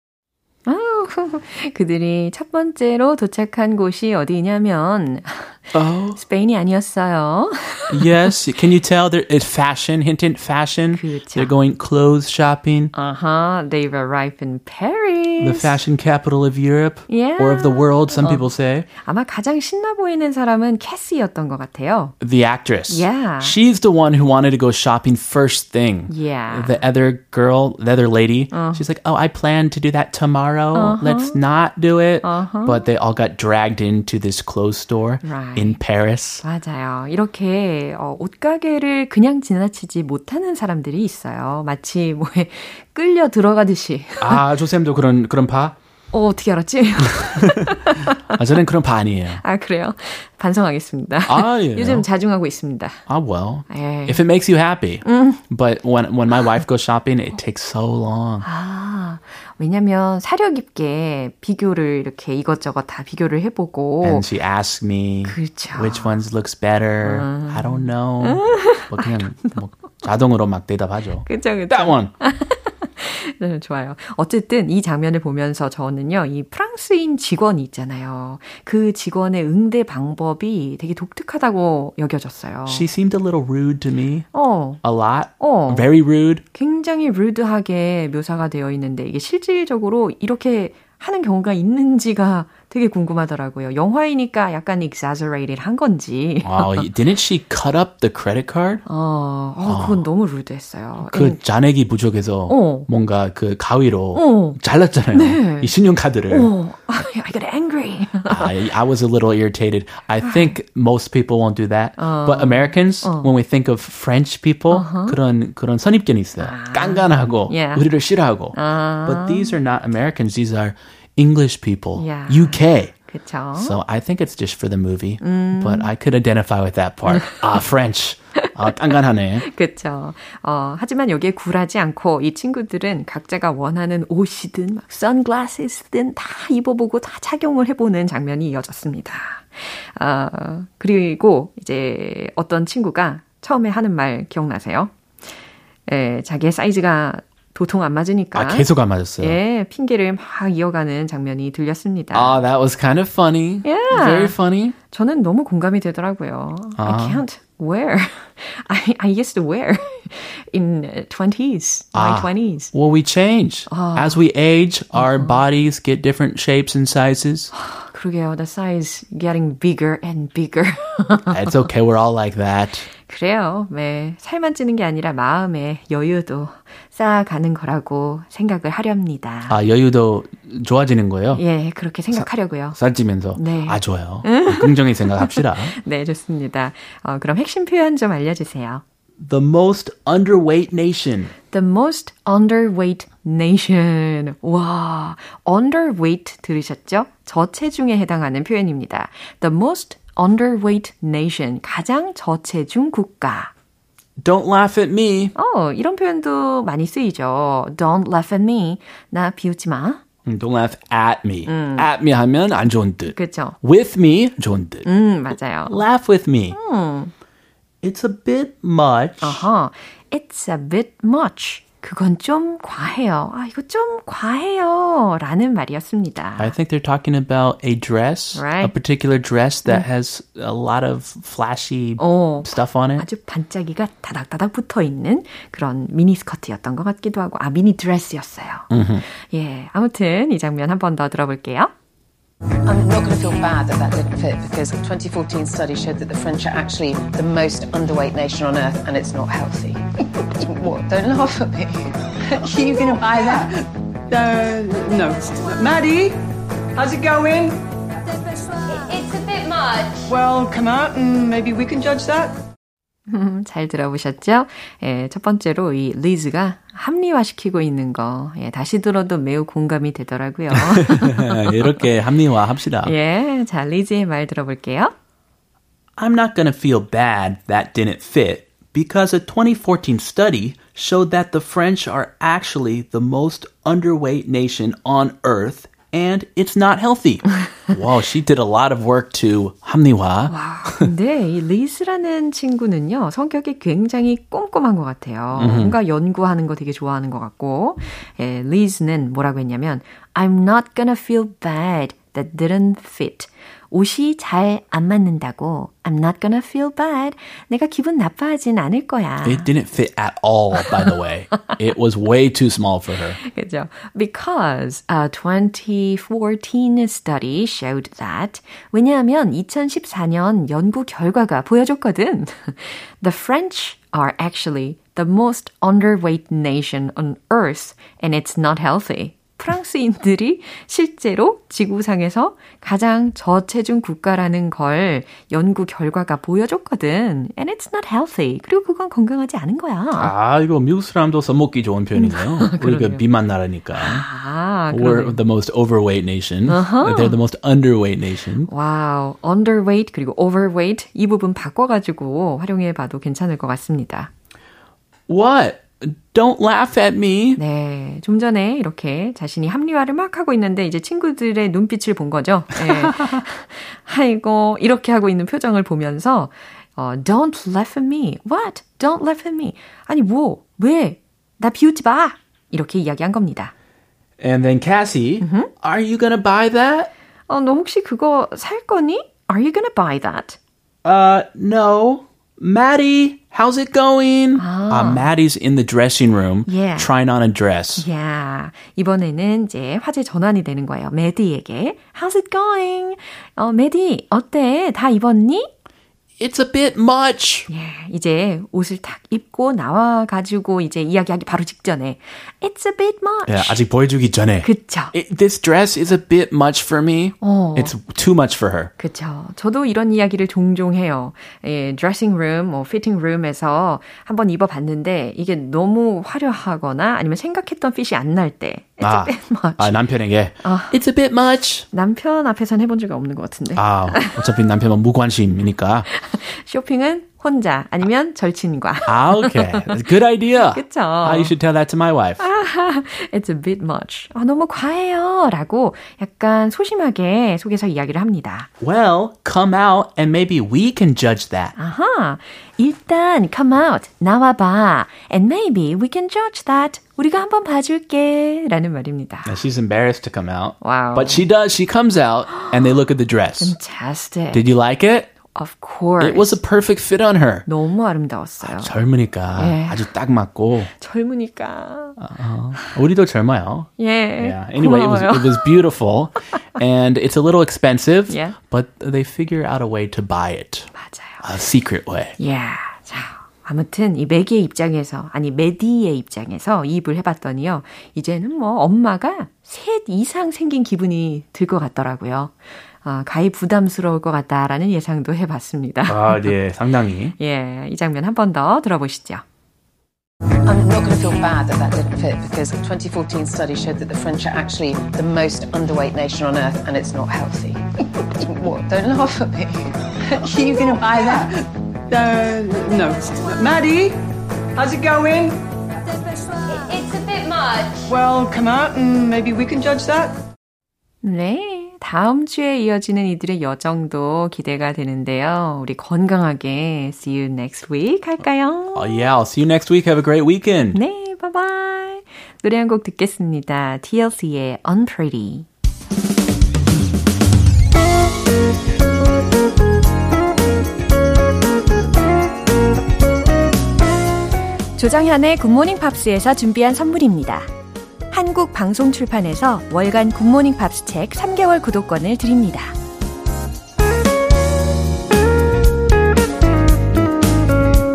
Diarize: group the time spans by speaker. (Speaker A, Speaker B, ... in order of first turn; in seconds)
Speaker A: 0.7-8.1, 10.9-11.5, 12.9-15.7, 17.1-22.1, 22.9-23.6, 26.1-26.8, 28.5-28.9, 30.7-31.4, 32.2-32.8, 35.2-35.8, 36.4-44.4, 46.1-48.4, 49.4-53.0, 53.7-54.2, 55.0-55.4, 58.4-64.2, 65.2-66.1, 67.0-69.6, 71.2-82.9, 84.3-84.8, 85.4-85.9, 86.5-96.9, 98.8-101.4, 102.5-102.9, 104.1-104.6, 105.1-105.7, 106.3-108.5, 110.2-110.5, 112.0-113.3, 114.7-115.2, 116.4-117.8, 118.5-119.6, 122.0-123.8, 125.2-125.9, 127.1-127.4, 128.3-144.9, 145.9-148.7, 149.2-152.4, 153.6-154.3, 154.9-162.7, 163.7-164.2, 164.9-165.4, 167.5-171.6, 173.1-179.6, 181.3-182.8, 183.3-188.8, 191.5-203.5, 205.3-210.0, 211.4-211.9, 213.1-213.6, 214.8-215.8, 216.5-217.1, 219.2-226.5, 228.3-228.7, 232.0-241.7, 263.1-271.8, 272.8-274.9, 290.3-309.5, 313.2-340.1, 341.9-343.0, 343.8-345.2, 346.5-347.2, 348.5-354.1, 357.4-373.5, 375.2-375.5, 377.3-380.4, 384.4-385.1, 386.4-386.9, 387.8-395.5, 397.5-403.6, 404.4-404.9, 407.2-407.7, 408.8-419.8, 420.4-420.8, 421.7-424.2, 425.9-429.8, 430.4-431.3, 432.2-438.5, 441.6-449.4, 450.6-451.2, 452.3-452.6, 453.4-454.5, 455.3-456.4, 457.4-458.7, 459.4-459.9, 460.8-462.0, 463.8-465.5, 468.1-468.4, 470.7-471.3, 472.2-486.4, 487.2-489.2, 511.0-519.1, 520.7-525.5, 534.8-537.5, 538.1-542.8
Speaker B: 5.7-6.2, 7.9-12.9, 15.4-18.9, 22.2-36.4, 44.2-45.8, 47.1-47.7, 48.3-49.4, 51.3-52.0, 53.1-58.5, 64.0-72.1, 82.7-84.3, 84.8-86.4, 96.4-98.8, 99.6-100.0, 101.0-106.5, 108.3-122.9, 123.5-129.5, 148.3-149.4, 152.1-154.8, 156.8-157.2, 161.9-167.5, 171.3-172.9, 179.5-181.4, 182.1-185.8, 189.2-191.3, 204.2-205.3, 210.2-214.9, 215.7-216.6, 217.8-219.5, 226.4-233.0, 238.7-239.0, 270.5-272.9, 276.0-290.9, 295.3-295.7, 309.2-313.2, 339.9-344.1, 344.7-348.5, 355.1-357.4, 362.7-363.1, 374.2-376.9, 380.8-387.8, 396.2-397.5, 403.2-408.7, 418.8-421.6, 423.5-425.9, 428.9-432.2, 438.6-441.5, 449.2-453.5, 454.3-455.1, 456.0-457.4, 458.4-460.7, 462.0-470.7, 471.2-472.1, 485.9-487.1, 518.7-520.8
Speaker C: 242.7-253.4, 490.4-501.3
Speaker D: 252.9-253.5, 254.1-256.1, 256.8-257.6, 260.1-262.3, 500.8-501.3, 501.9-503.9, 504.5-505.4, 507.9-510.1
Speaker E: 258.7-259.9, 506.5-507.8